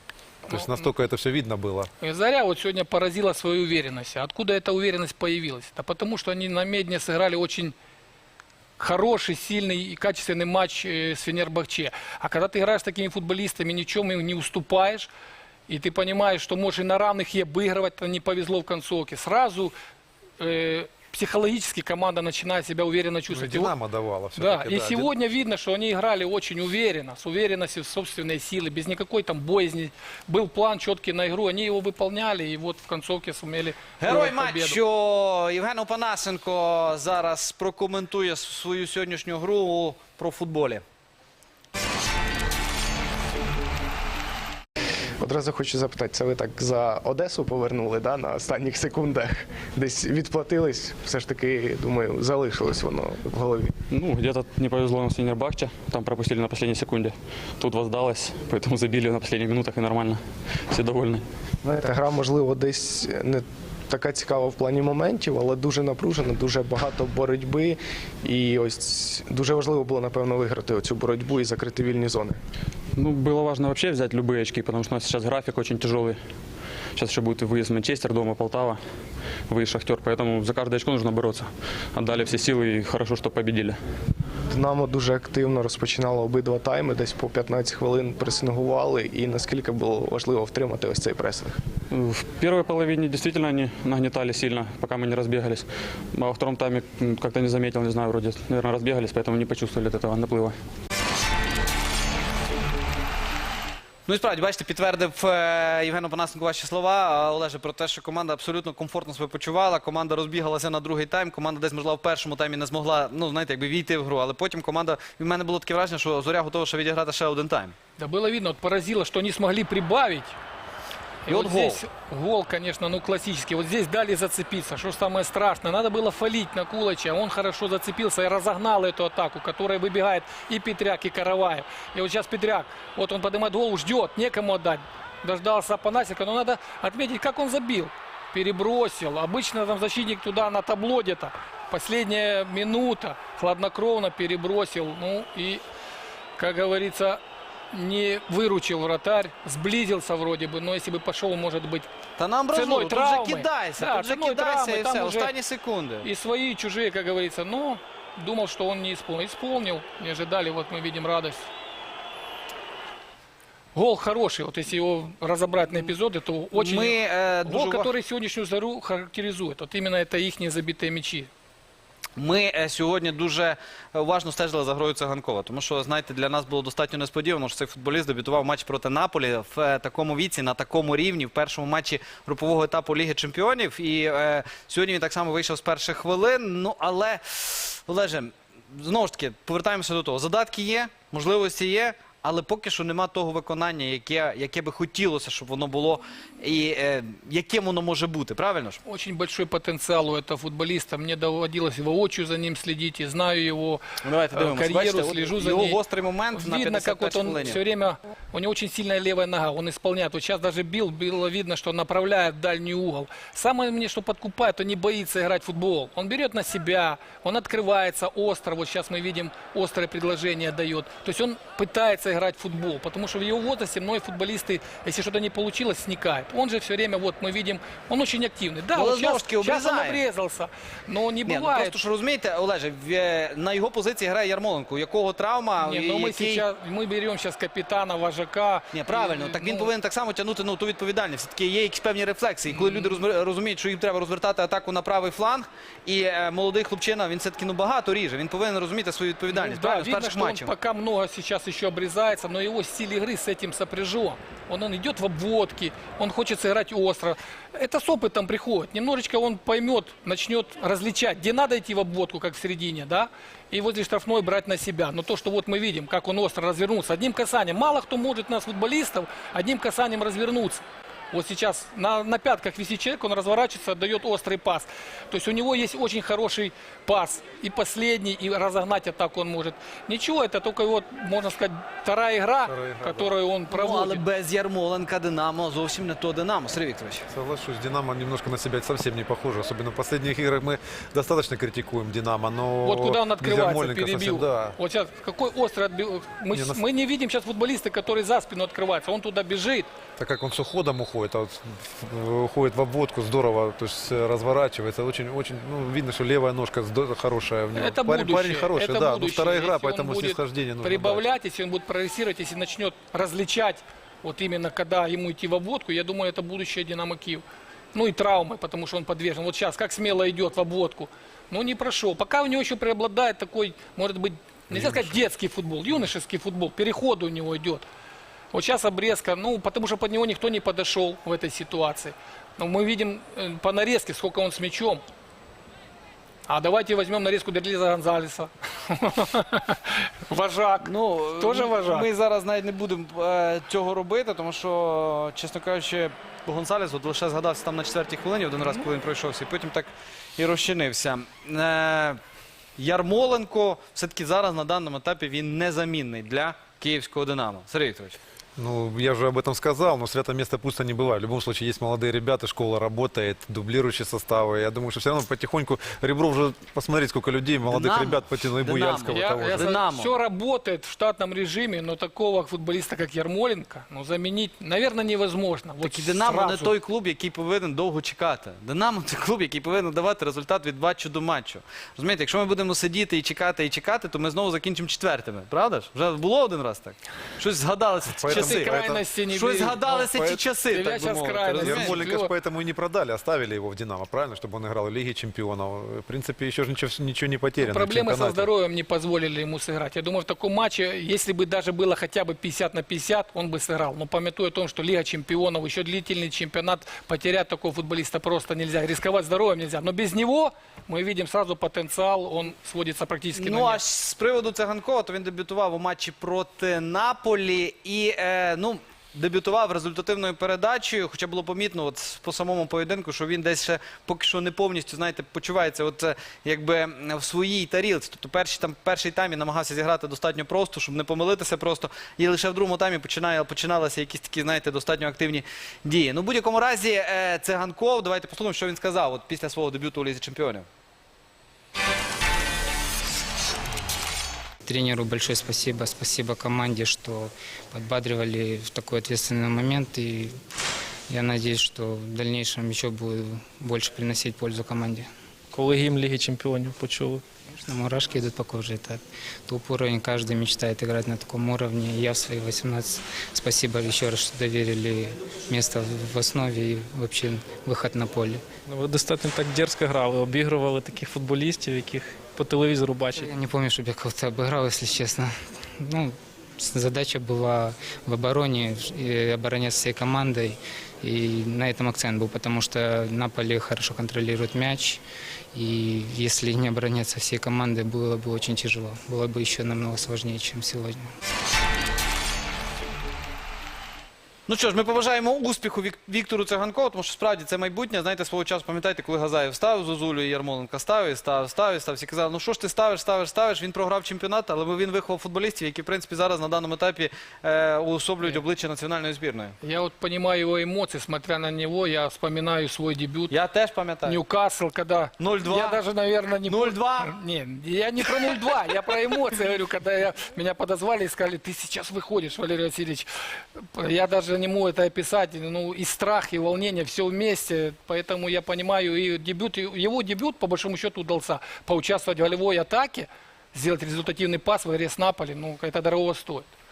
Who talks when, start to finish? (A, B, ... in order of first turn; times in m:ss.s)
0:00.5-0:01.9 A
0:00.5-0:00.9 B
0:02.0-0:07.7 B
0:08.8-0:15.1 B
0:15.7-0:19.7 B
0:20.4-0:23.7 B
0:23.3-0:25.1 A
0:24.4-0:34.8 B
0:34.0-0:40.8 C
0:45.2-0:53.7 D
0:53.9-1:01.2 E
1:01.6-1:12.4 D
1:13.0-1:16.2 E
1:16.9-1:18.8 E
1:19.5-1:23.8 E
1:24.5-1:31.6 D
1:31.9-1:40.5 E
1:44.1-1:57.7 C
1:58.0-2:00.3 B
2:01.2-2:25.6 B
2:01.3-2:01.8 C
2:26.4-2:27.2 B
2:27.7-2:31.9 B
2:32.2-2:36.1 C
2:32.5-2:35.3 B
2:36.0-2:41.5 B
2:43.7-2:51.3 B
2:45.7-2:45.9 C
2:46.5-2:47.9 C
2:52.2-3:18.8 C
3:18.8-3:25.8 B
3:24.0-3:27.6 C
3:26.3-3:51.8 B
3:48.7-3:50.0 C
3:51.2-3:56.4 C
3:55.6-3:59.7 B
3:58.7-4:10.5 C
4:02.5-4:03.0 B
4:09.3-4:44.0 B
4:42.4-4:43.1 A
4:43.5-4:47.1 C
4:47.1-4:54.6 A
4:52.6-4:59.7 B
4:56.3-4:56.6 A
5:00.0-5:11.0 A
5:07.5-5:27.6 B
5:24.5-5:25.0 A
5:28.3-5:34.8 B
5:36.3-5:41.9 B
5:40.6-5:52.0 C
5:52.6-5:58.0 C
5:58.4-6:09.5 A
6:07.5-6:09.9 C
6:08.9-6:16.5 B
6:15.6-6:28.6 C
6:28.0-6:28.8 A
6:28.1-6:32.1 B
6:29.1-6:31.8 C
6:31.4-6:38.3 A
6:37.4-6:53.6 B
6:53.2-7:20.4 C
7:24.4-7:30.1 F
7:30.9-7:34.9 F
7:35.3-7:37.0 G
7:37.4-7:48.2 F
7:48.4-7:53.1 G
7:52.9-8:04.8 F
8:05.3-8:10.9 F
8:14.3-8:29.3 C
8:29.4-8:33.1 B
8:33.1-8:34.0 C
8:33.8-8:56.3 B
8:35.0-8:35.6 C
8:36.2-8:36.9 C